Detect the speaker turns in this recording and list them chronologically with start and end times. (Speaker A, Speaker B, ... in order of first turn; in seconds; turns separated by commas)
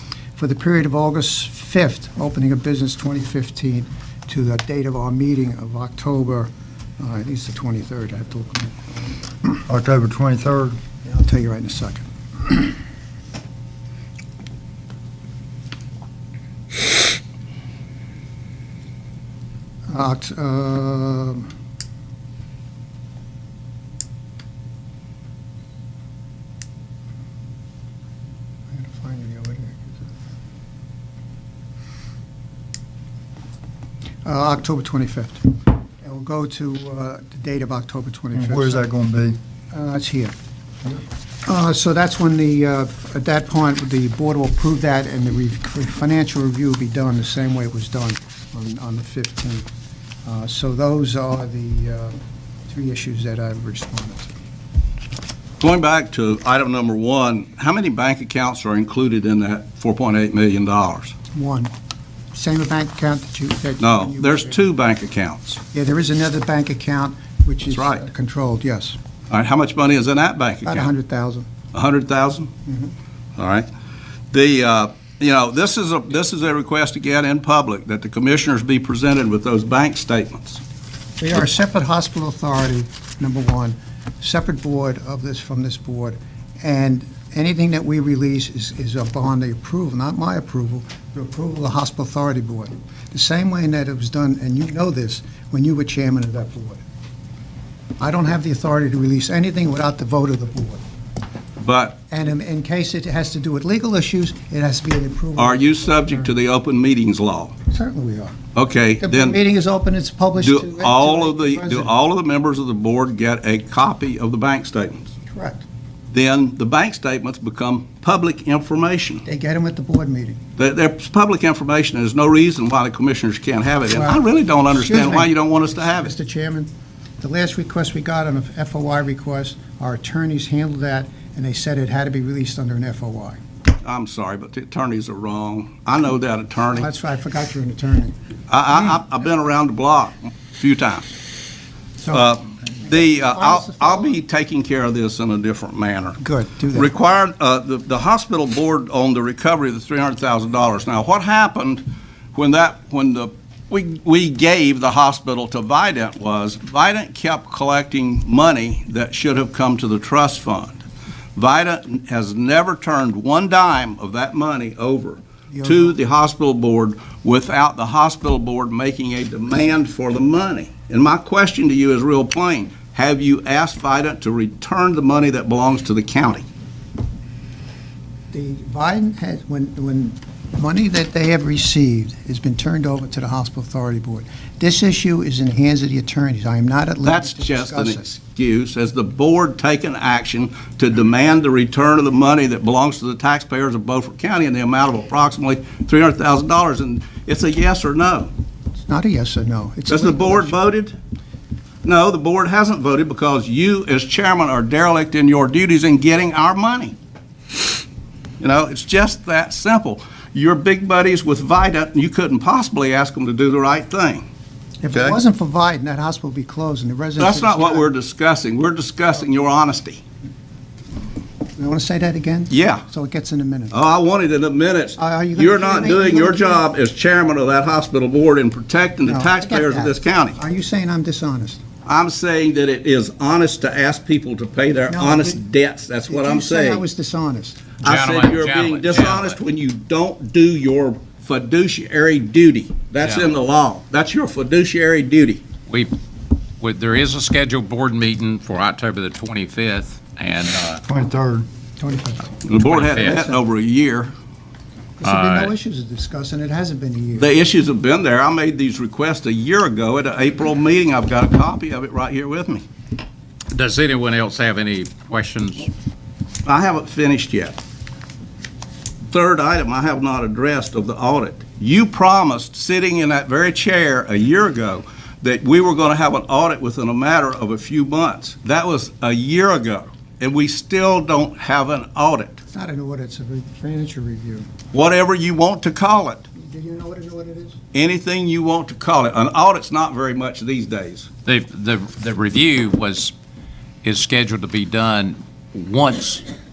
Speaker A: 0.4-9.2, Speaker B: 9.7-10.8, Speaker A: 11.0-12.7, Speaker A: 19.9-21.5, Speaker A: 28.7-30.0, Speaker A: 34.2-38.9, Speaker B: 38.4-39.4, Speaker A: 39.7-40.4, Speaker A: 41.5-49.7, Speaker A: 50.2-54.3, Speaker C: 55.6-61.1, Speaker A: 61.3-61.7, Speaker A: 62.3-64.7, Speaker C: 63.8-65.6, Speaker A: 65.7-69.0, Speaker C: 67.7-68.0, Speaker C: 69.3-70.9, Speaker A: 70.7-71.5, Speaker C: 71.7-72.5, Speaker A: 72.7-72.9, Speaker C: 73.4-73.7, Speaker C: 74.3-80.6, Speaker A: 81.2-96.8, Speaker A: 98.0-100.8, Speaker C: 101.6-102.0, Speaker A: 102.1-106.3, Speaker C: 105.4-107.5, Speaker A: 107.7-108.4, Speaker C: 108.5-109.4, Speaker A: 109.0-111.9, Speaker C: 110.4-115.1, Speaker A: 115.3-115.7, Speaker C: 116.1-119.2, Speaker A: 119.2-120.4, Speaker C: 120.6-126.1, Speaker A: 123.9-133.4, Speaker C: 133.8-136.9, Speaker A: 136.7-138.2, Speaker C: 138.5-141.1, Speaker A: 138.7-139.0, Speaker A: 142.0-144.2, Speaker C: 142.1-160.8, Speaker A: 146.2-146.9, Speaker C: 161.4-176.5, Speaker A: 165.5-166.0, Speaker A: 178.3-188.1, Speaker C: 187.0-198.3, Speaker A: 198.8-200.6, Speaker C: 199.9-201.0, Speaker C: 201.8-206.9, Speaker C: 208.4-214.2, Speaker A: 214.8-217.9, Speaker C: 217.2-220.0, Speaker A: 221.6-223.8, Speaker C: 222.5-222.8, Speaker C: 223.7-230.4, Speaker A: 225.0-226.7, Speaker A: 229.0-231.6, Speaker C: 231.9-236.8, Speaker A: 234.9-235.4, Speaker A: 236.1-237.6, Speaker D: 237.8-239.4, Speaker C: 237.8-245.4, Speaker D: 243.0-243.3, Speaker D: 245.7-245.9, Speaker D: 246.6-250.8, Speaker B: 250.9-251.5, Speaker A: 251.8-252.3, Speaker C: 252.4-254.1, Speaker D: 252.5-253.3, Speaker A: 255.0-257.3, Speaker D: 255.0-255.5, Speaker C: 257.1-262.6, Speaker D: 263.5-265.7, Speaker C: 266.4-267.6, Speaker C: 269.1-282.4, Speaker A: 282.5-284.5, Speaker C: 284.7-286.3, Speaker A: 286.4-287.6, Speaker C: 287.7-291.1, Speaker D: 291.3-293.1, Speaker D: 293.8-296.3